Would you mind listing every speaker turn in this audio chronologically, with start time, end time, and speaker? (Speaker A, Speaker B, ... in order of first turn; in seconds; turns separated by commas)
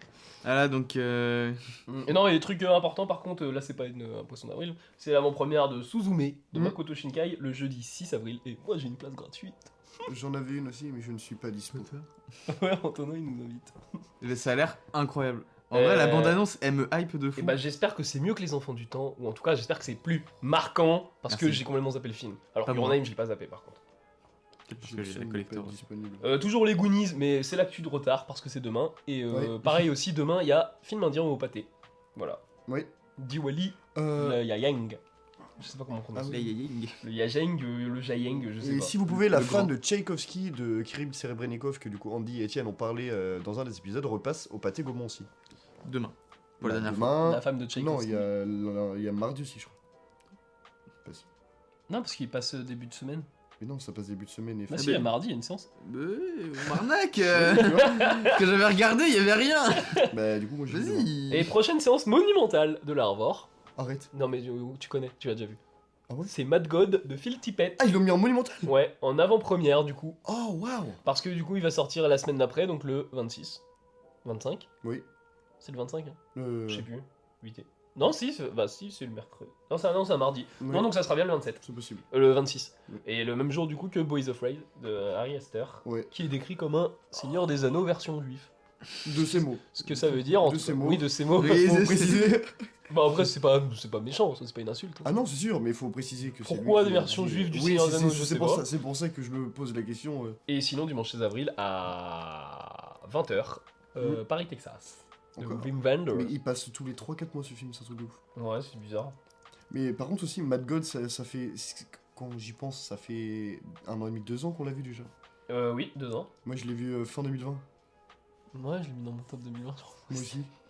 Speaker A: 0.4-1.6, Speaker B: 1.9-9.7, Speaker C: 10.1-11.9, Speaker A: 11.7-12.1, Speaker B: 12.5-13.8, Speaker A: 14.2-17.6, Speaker B: 15.7-16.4, Speaker B: 17.4-23.8, Speaker A: 21.3-21.6, Speaker A: 22.7-23.0, Speaker A: 24.7-25.8, Speaker C: 24.8-26.2, Speaker B: 26.2-32.4, Speaker C: 29.3-29.5, Speaker B: 33.2-35.0, Speaker C: 33.9-34.4, Speaker B: 35.6-39.0, Speaker C: 36.1-36.5, Speaker A: 36.3-37.0, Speaker C: 38.6-45.3, Speaker A: 39.3-39.7, Speaker A: 45.8-47.2, Speaker C: 46.6-49.8, Speaker B: 47.2-48.3, Speaker B: 51.9-53.3, Speaker C: 53.6-55.0, Speaker B: 54.7-55.7, Speaker A: 54.7-55.1, Speaker A: 55.8-60.0, Speaker C: 57.3-58.1, Speaker B: 57.6-58.4, Speaker B: 59.8-60.1, Speaker C: 60.1-61.1, Speaker A: 60.7-61.5, Speaker B: 61.3-63.5, Speaker C: 63.8-64.1, Speaker B: 64.1-65.6, Speaker B: 66.3-67.8, Speaker C: 67.8-68.7, Speaker B: 68.6-70.2, Speaker C: 70.2-71.0, Speaker B: 71.0-73.6, Speaker B: 74.2-74.7, Speaker B: 75.6-88.5, Speaker C: 76.3-76.9, Speaker C: 80.6-80.9, Speaker C: 81.6-82.0, Speaker C: 85.8-86.1, Speaker C: 89.0-92.5, Speaker B: 89.7-91.8, Speaker A: 91.3-92.4, Speaker B: 92.9-95.1, Speaker C: 95.0-100.4, Speaker B: 96.4-98.7, Speaker B: 100.5-106.3, Speaker C: 105.3-108.2, Speaker B: 108.3-109.1, Speaker C: 109.7-115.1, Speaker B: 115.5-116.3, Speaker C: 116.4-117.6, Speaker B: 118.5-120.3, Speaker C: 120.1-120.5